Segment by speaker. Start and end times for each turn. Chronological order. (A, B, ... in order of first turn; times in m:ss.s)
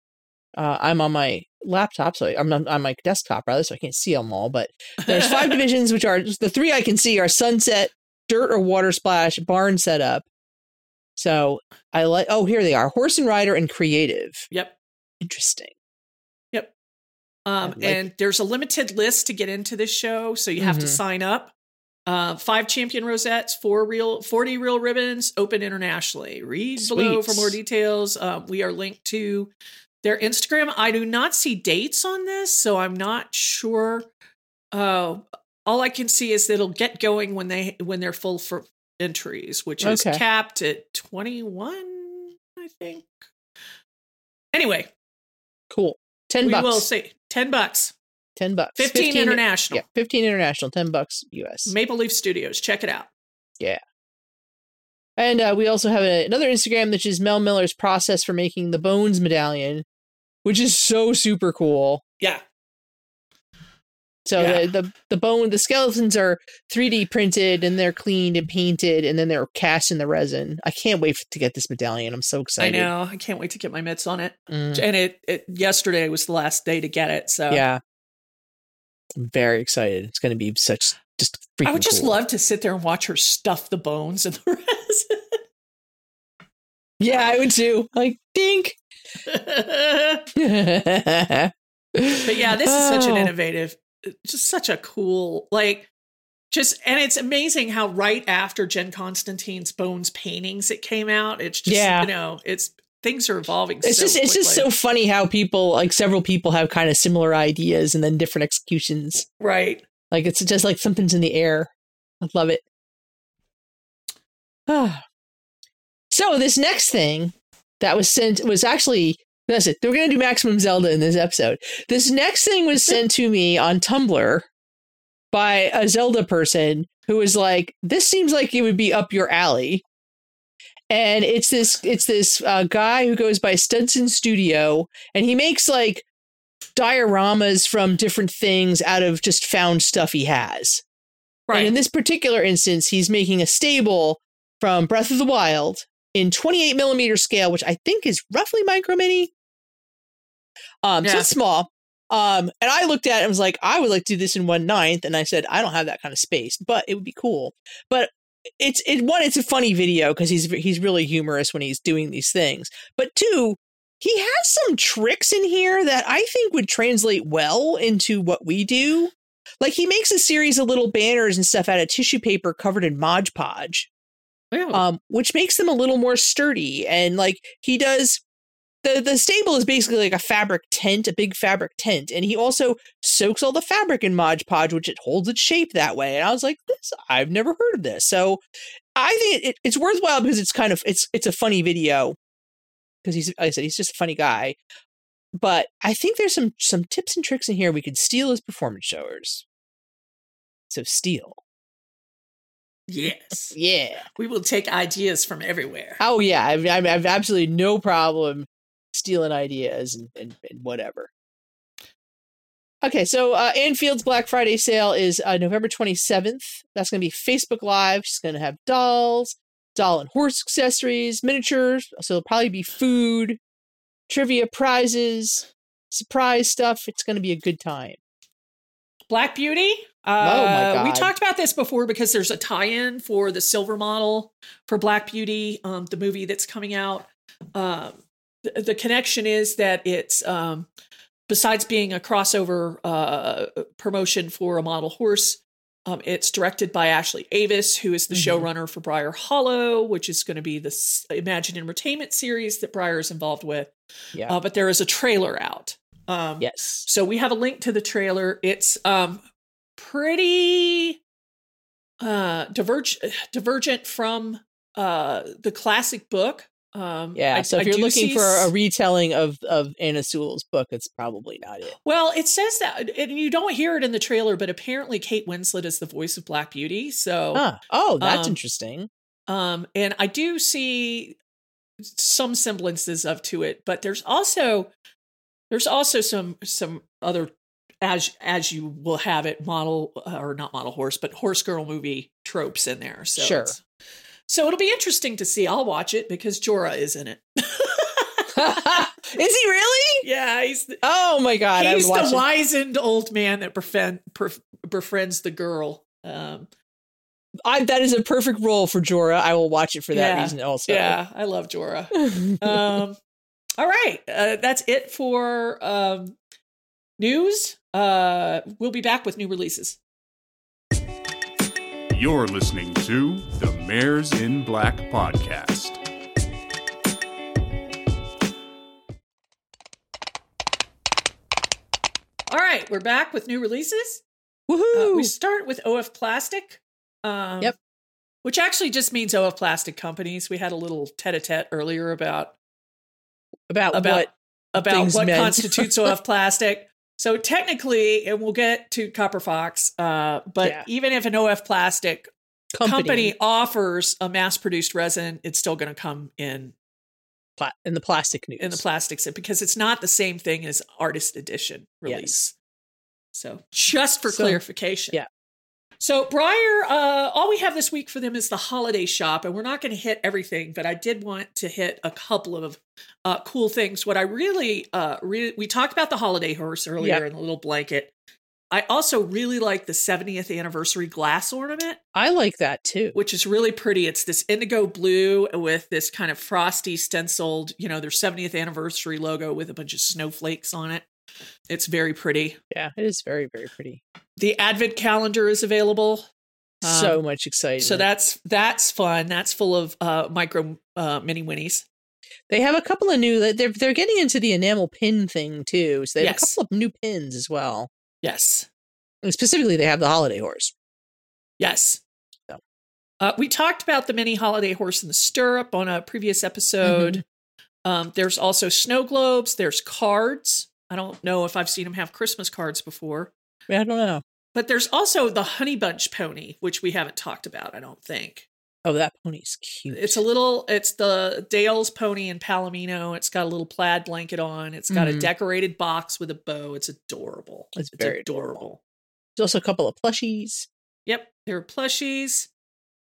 0:00.5-0:10.2 A
0:05.1-0:05.5 B
0:11.2-0:14.4 A
0:14.5-0:14.8 B
0:15.2-0:15.7 A
0:17.4-0:21.5 B
0:17.7-0:18.0 A
0:20.6-0:21.0 A
0:22.1-0:29.5 B
0:26.8-0:27.6 A
0:30.0-0:34.1 B
0:34.7-0:43.1 B
0:39.8-0:40.2 A
0:44.5-0:44.9 B
0:45.7-0:46.9 A
0:46.4-0:47.9 B
0:48.4-0:51.7 A
0:48.8-0:49.8 B
0:51.6-0:53.1 B
0:55.2-0:59.8 A
1:00.4-1:02.0 A
1:04.2-1:12.9 A
1:04.4-1:04.7 B
1:12.6-1:17.6 B
1:14.5-1:14.8 A
1:17.5-1:17.8 A
1:19.1-1:22.2 A
1:21.6-1:25.4 B
1:27.0-1:28.8 A
1:29.2-1:30.3 B
1:30.3-1:33.3 A
1:32.2-1:35.9 B
1:36.5-1:44.7 B
1:41.7-1:42.1 A
1:43.8-1:49.2 A
1:49.4-1:49.8 B
1:50.1-1:51.7 A
1:52.2-1:52.6 A
1:54.7-1:55.0 A
1:56.1-2:04.4 A
2:05.3-2:09.8 A
2:10.9-2:16.0 A
2:16.8-2:20.8 A
2:21.5-2:21.7 B
2:21.5-2:29.3 A
2:30.8-2:53.9 A
2:31.0-2:31.3 B
2:54.5-2:54.8 B
2:54.7-2:58.2 A
2:58.8-3:08.4 A
3:09.0-3:12.2 A
3:13.0-3:14.6 A
3:15.4-3:19.4 A
3:20.7-3:21.4 A
3:22.9-3:23.6 B
3:23.5-3:24.0 A
3:24.2-3:26.0 B
3:26.0-3:31.1 A
3:32.8-3:43.4 A
3:44.1-3:48.0 A
3:49.1-4:00.7 B
3:50.2-3:51.1 A
4:01.3-4:13.7 B
4:08.1-4:08.5 A
4:14.2-4:19.2 B
4:16.4-4:16.8 A
4:19.8-4:21.0 B
4:22.0-4:28.5 B
4:27.1-4:31.8 A
4:31.8-4:37.4 B
4:37.3-4:38.9 A
4:38.0-4:38.4 B
4:39.3-4:41.2 B
4:41.8-4:44.7 B
4:45.5-4:53.6 B
4:53.2-4:53.5 A
4:54.3-4:58.7 B
4:58.3-5:00.0 A
5:00.0-5:00.8 B
5:00.8-5:02.2 A
5:01.5-5:06.5 B
5:07.4-5:11.0 A
5:09.9-5:13.0 B
5:12.1-5:12.8 A
5:13.6-5:16.2 B
5:17.0-5:19.8 B
5:21.9-5:25.8 C
5:32.3-5:34.0 B
5:34.5-5:35.1 A
5:34.7-5:37.5 B
5:38.2-5:42.3 B
5:43.5-5:45.9 A
5:43.7-5:52.1 B
5:52.5-5:53.1 A
5:52.6-5:56.5 B
5:57.4-5:58.6 A
5:58.4-6:02.3 B
6:01.8-6:02.1 A
6:03.1-6:05.0 B
6:04.1-6:04.4 A
6:05.8-6:17.9 B
6:18.5-6:21.8 B
6:21.9-6:23.0 A
6:22.9-6:30.8 B
6:31.5-6:32.4 B
6:32.5-6:33.8 A
6:34.2-6:36.0 B
6:36.6-6:37.0 B
6:36.6-6:37.8 A
6:37.6-6:41.6 B
6:42.3-6:47.7 A
6:46.0-6:46.4 B
6:48.0-6:48.5 B
6:49.0-6:50.5 A
6:51.4-6:51.8 B
6:53.0-6:57.0 B
6:56.6-6:57.0 A
6:57.6-7:03.1 B
7:03.5-7:04.0 A
7:04.3-7:08.3 B
7:08.6-7:10.0 A
7:09.7-7:18.6 B
7:14.7-7:15.1 A
7:17.5-7:18.4 A
7:19.2-7:20.5 A
7:20.8-7:22.3 B